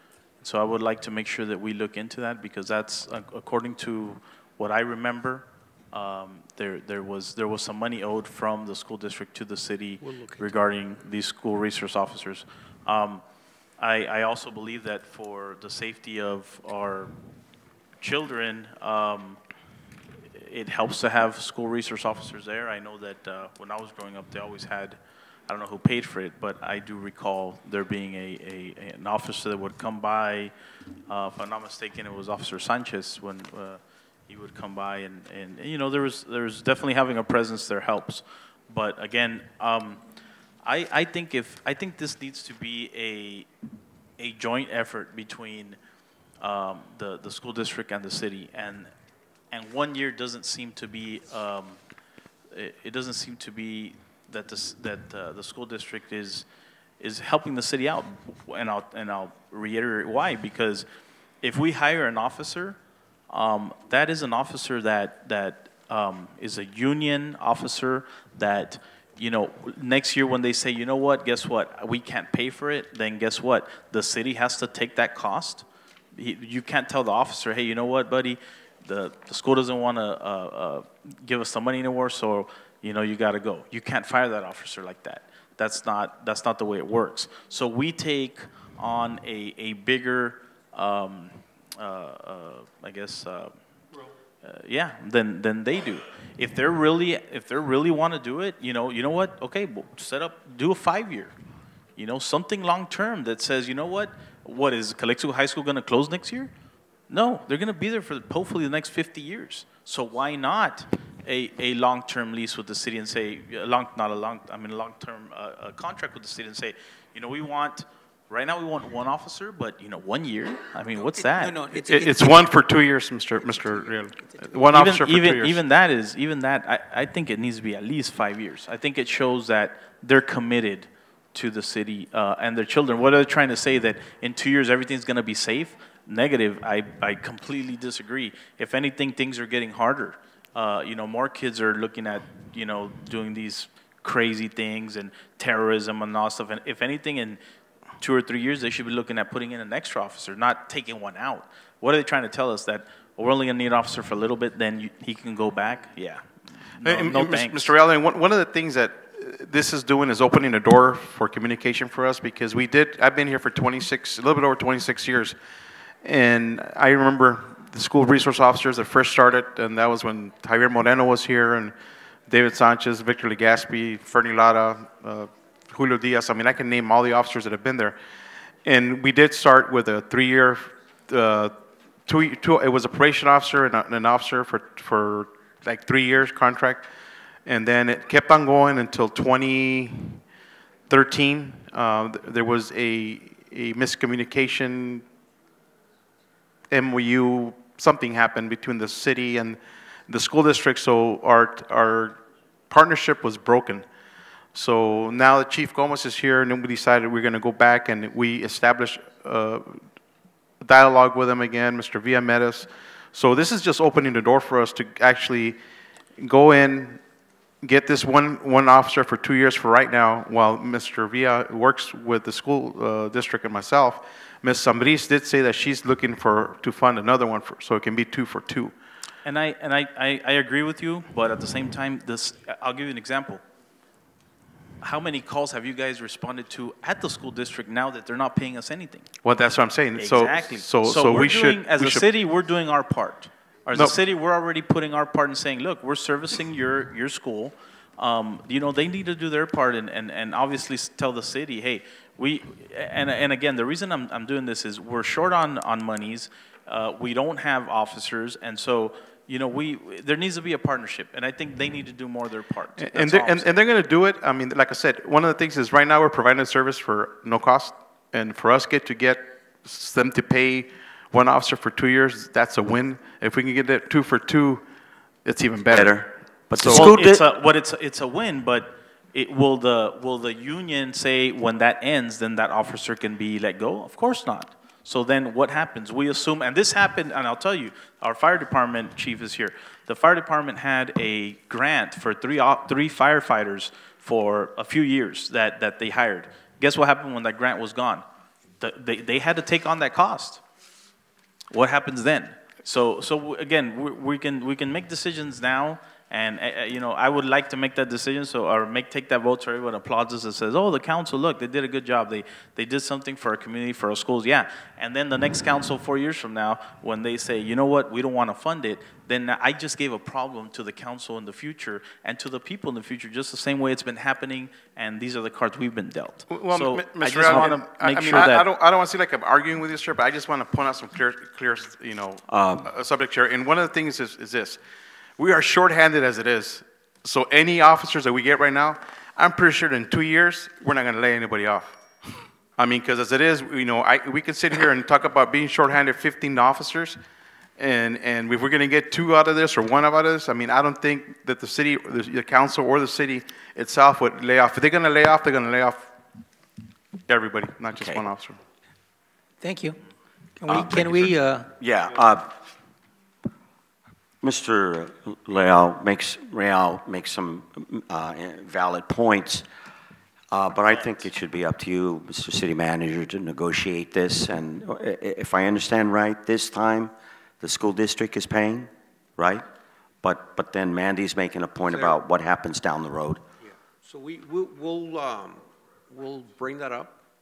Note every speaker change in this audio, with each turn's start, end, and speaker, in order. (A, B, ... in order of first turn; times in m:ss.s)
0:00.4-0:13.2 A
0:10.0-0:10.4 B
0:13.8-0:17.1 A
0:18.0-0:19.4 A
0:20.3-0:30.5 A
0:31.1-0:40.0 A
0:40.6-0:43.5 A
0:44.2-0:45.8 A
0:46.4-0:48.9 A
0:49.5-0:51.8 A
0:52.5-0:56.4 A
0:57.0-1:00.8 A
1:01.4-1:02.8 A
1:03.3-1:33.6 A
1:34.4-1:41.3 A
1:42.0-1:46.5 A
1:47.1-2:01.6 A
2:00.9-2:02.5 B
2:01.7-2:05.6 C
2:03.4-2:04.5 B
2:04.7-2:27.4 A
2:28.0-2:37.7 A
2:36.8-2:45.4 C
2:46.0-2:51.8 C
2:52.3-2:58.0 C
2:58.6-3:06.9 C
3:07.4-3:10.2 C
3:10.9-3:15.0 C
3:16.7-3:23.8 C
3:24.5-3:29.8 C
3:30.6-3:35.6 C
3:36.2-3:37.0 C
3:37.6-3:48.7 C
3:49.2-3:53.4 A
3:54.8-3:59.1 A
3:59.2-4:02.1 C
4:00.0-4:23.5 A
4:22.8-4:34.6 C
4:35.2-4:37.0 C
4:35.7-4:37.3 D
4:36.6-4:58.0 A
4:58.6-5:00.4 A
5:01.5-5:28.5 A
5:26.3-5:34.6 C
5:32.3-5:32.7 D
5:35.2-5:41.8 C
5:42.6-5:47.0 C
5:47.6-5:55.9 C
5:57.1-5:58.4 C
5:57.7-5:58.1 D
5:59.4-5:59.8 B
6:00.4-6:01.5 B
6:00.5-6:02.4 D
6:04.2-6:09.4 D
6:10.3-6:19.4 D
6:20.0-6:23.2 D
6:21.7-6:22.0 E
6:23.4-6:27.0 E